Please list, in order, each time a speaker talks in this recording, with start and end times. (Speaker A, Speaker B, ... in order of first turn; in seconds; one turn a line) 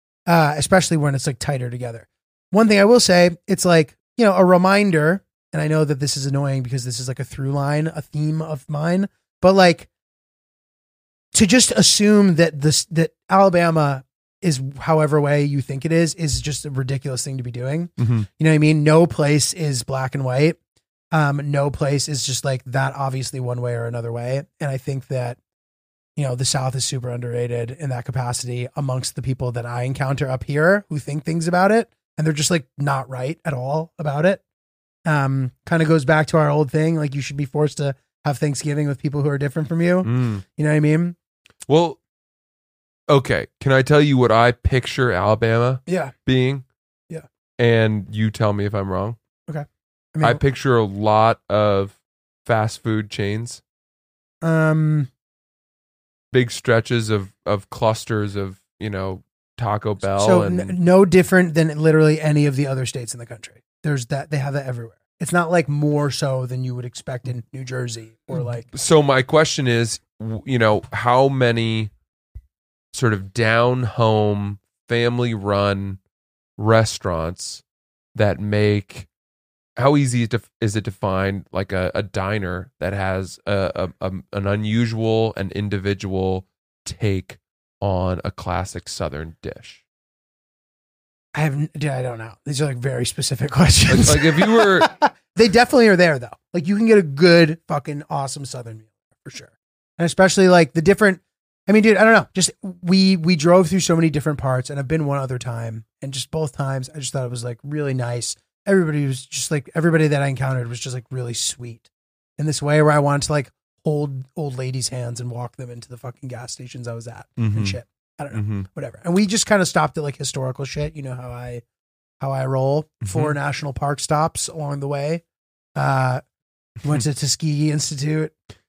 Speaker A: 0.3-9.9
Speaker A: 11.3-20.6
Speaker B: 18.0-18.3
Speaker A: 21.1-25.4
Speaker A: 26.1-34.4
Speaker A: 35.0-41.1
Speaker B: 40.0-40.4
Speaker B: 41.7-42.0
Speaker B: 43.1-46.6
Speaker A: 45.9-46.1
Speaker B: 47.6-49.2
Speaker A: 49.5-50.4
Speaker B: 50.2-53.6
Speaker A: 54.4-55.1
Speaker B: 56.3-60.8
Speaker A: 60.1-68.7
Speaker B: 68.3-71.9
Speaker B: 72.9-76.0
Speaker B: 76.6-77.6
Speaker B: 78.1-79.1
Speaker B: 79.8-89.8
Speaker A: 91.3-111.8
Speaker B: 93.9-94.9
Speaker A: 112.4-121.6
Speaker B: 117.4-117.8
Speaker B: 118.3-118.7
Speaker A: 122.2-125.2
Speaker B: 123.0-123.3
Speaker A: 125.8-126.2
Speaker A: 126.8-128.3